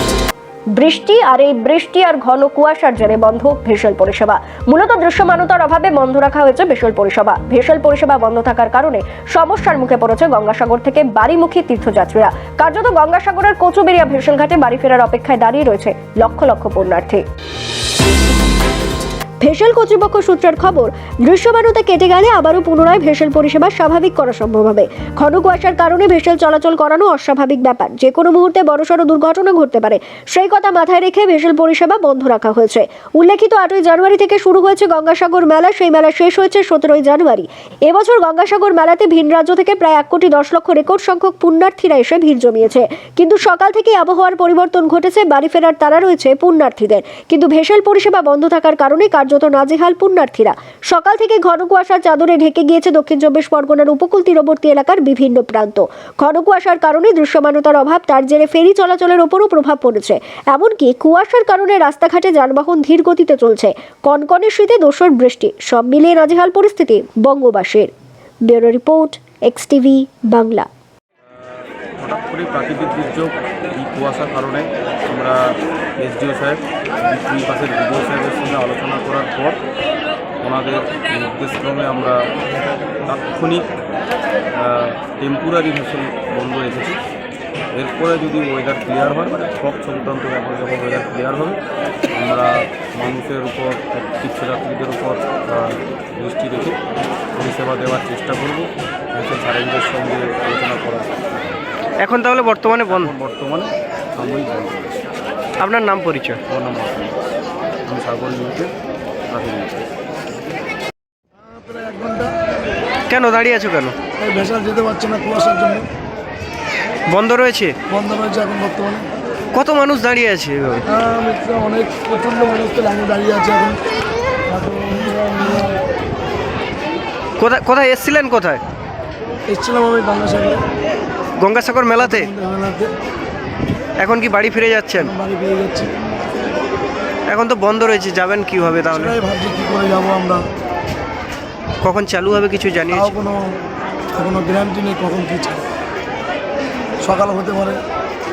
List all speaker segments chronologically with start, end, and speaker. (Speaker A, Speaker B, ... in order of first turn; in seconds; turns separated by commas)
Speaker A: 0.7-17.2, Speaker A: 19.4-67.9, Speaker A: 68.5-70.7, Speaker B: 71.5-75.4, Speaker B: 76.0-79.6, Speaker B: 80.4-82.2, Speaker B: 83.0-83.7, Speaker B: 84.5-87.0, Speaker B: 87.7-91.6, Speaker B: 92.1-96.8, Speaker B: 97.3-101.2, Speaker C: 102.0-103.1, Speaker B: 102.8-105.0, Speaker C: 105.6-106.4, Speaker B: 106.5-107.2, Speaker B: 107.8-108.7, Speaker B: 109.3-109.9, Speaker D: 111.4-112.3, Speaker C: 113.1-114.0, Speaker D: 114.2-115.9, Speaker C: 117.1-117.8, Speaker D: 117.9-119.1, Speaker C: 119.5-120.9, Speaker D: 120.9-123.8, Speaker D: 124.5-125.8, Speaker C: 127.4-128.6, Speaker D: 129.5-130.6, Speaker C: 131.4-132.3, Speaker D: 132.0-132.9, Speaker C: 134.0-135.1, Speaker D: 135.0-135.9, Speaker C: 137.3-139.2, Speaker D: 138.9-140.4, Speaker C: 141.8-143.1, Speaker D: 142.9-143.6, Speaker D: 144.1-145.6, Speaker D: 147.0-147.8